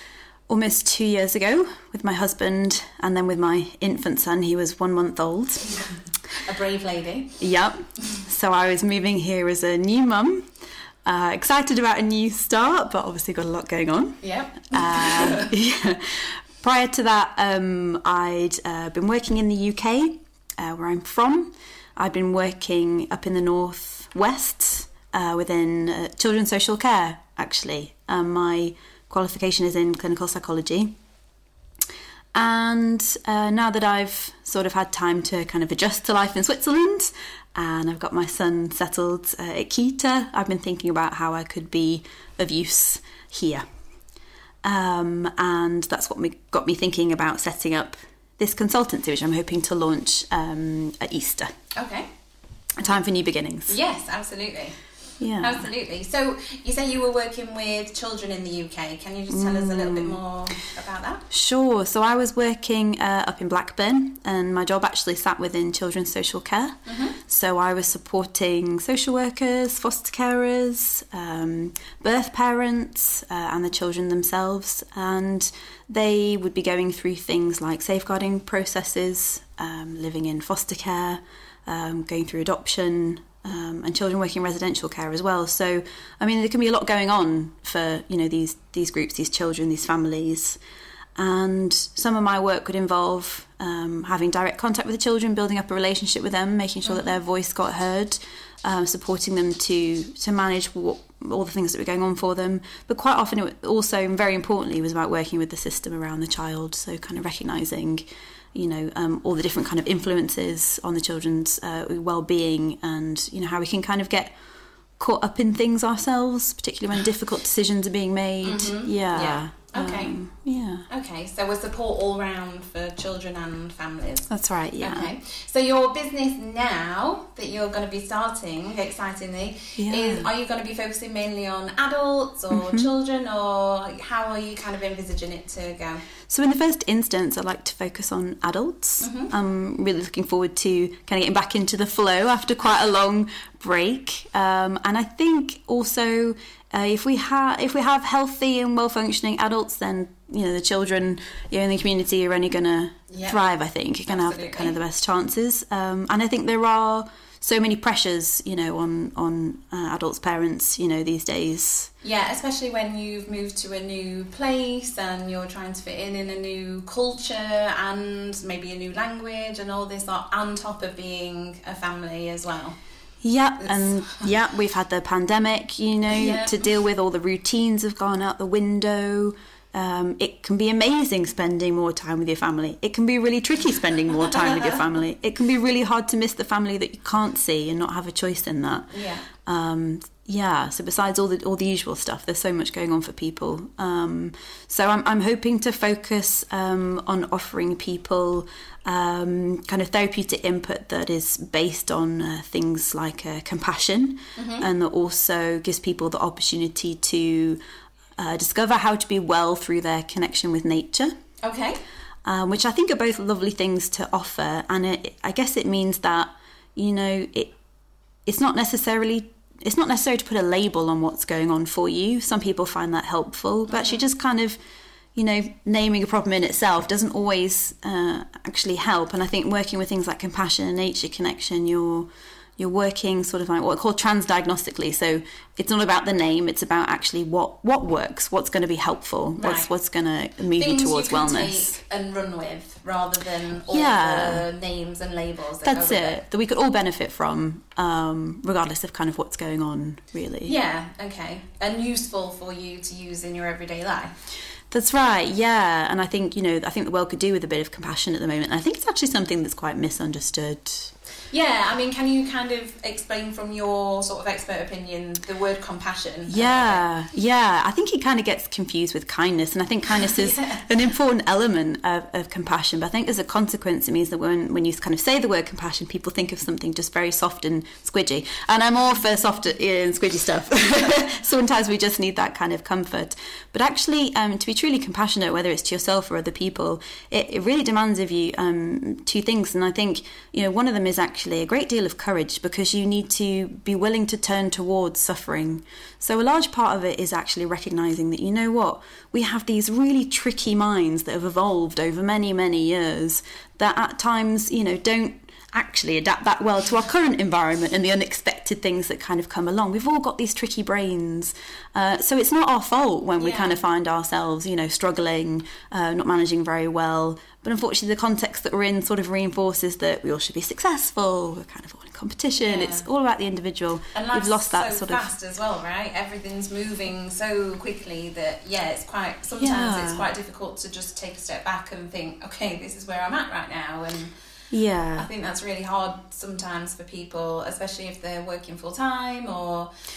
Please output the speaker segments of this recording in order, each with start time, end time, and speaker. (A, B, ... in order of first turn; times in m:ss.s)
0:00.5-0:05.8 A
0:06.4-0:07.4 B
0:07.4-0:10.5 A
0:11.0-0:30.9 A
0:14.2-0:15.5 B
0:32.3-0:43.6 A
0:44.6-0:51.5 A
0:51.7-0:52.1 B
0:52.8-0:53.8 A
0:53.7-0:54.8 B
0:55.2-0:55.7 A
0:55.4-1:01.2 B
0:59.3-1:00.2 A
1:01.3-1:30.6 A
1:06.8-1:07.2 B
1:31.2-1:54.3 A
1:36.8-1:37.1 B
1:55.0-2:00.9 A
1:58.4-2:00.1 B
2:00.9-2:16.0 B
2:04.3-2:05.1 A
2:09.8-2:10.3 A
2:12.5-2:12.9 A
2:16.3-2:41.9 A
2:19.0-2:19.3 B
2:33.1-2:33.4 B
2:34.1-2:34.7 B
2:42.0-2:52.8 B
2:53.2-3:27.6 A
2:53.6-2:54.2 B
2:56.1-2:56.6 B
3:08.9-3:09.3 B
3:24.4-3:24.7 B
3:28.2-3:31.1 A
3:31.4-3:31.8 B
3:32.2-3:37.5 A
3:38.2-3:44.6 A
3:43.7-3:44.0 B
3:45.2-4:01.8 A
3:59.4-3:59.7 B
4:00.6-4:06.2 B
4:03.7-4:04.5 A
4:05.6-4:10.5 A
4:10.4-4:14.1 B
4:14.7-4:20.9 A
4:21.3-4:26.8 B
4:26.3-5:25.1 A
4:30.0-4:30.7 B
5:13.2-5:13.6 B
5:22.4-5:22.8 B
5:23.9-5:34.1 B
5:29.4-5:30.1 A
5:34.5-5:35.1 A
5:35.0-5:39.7 B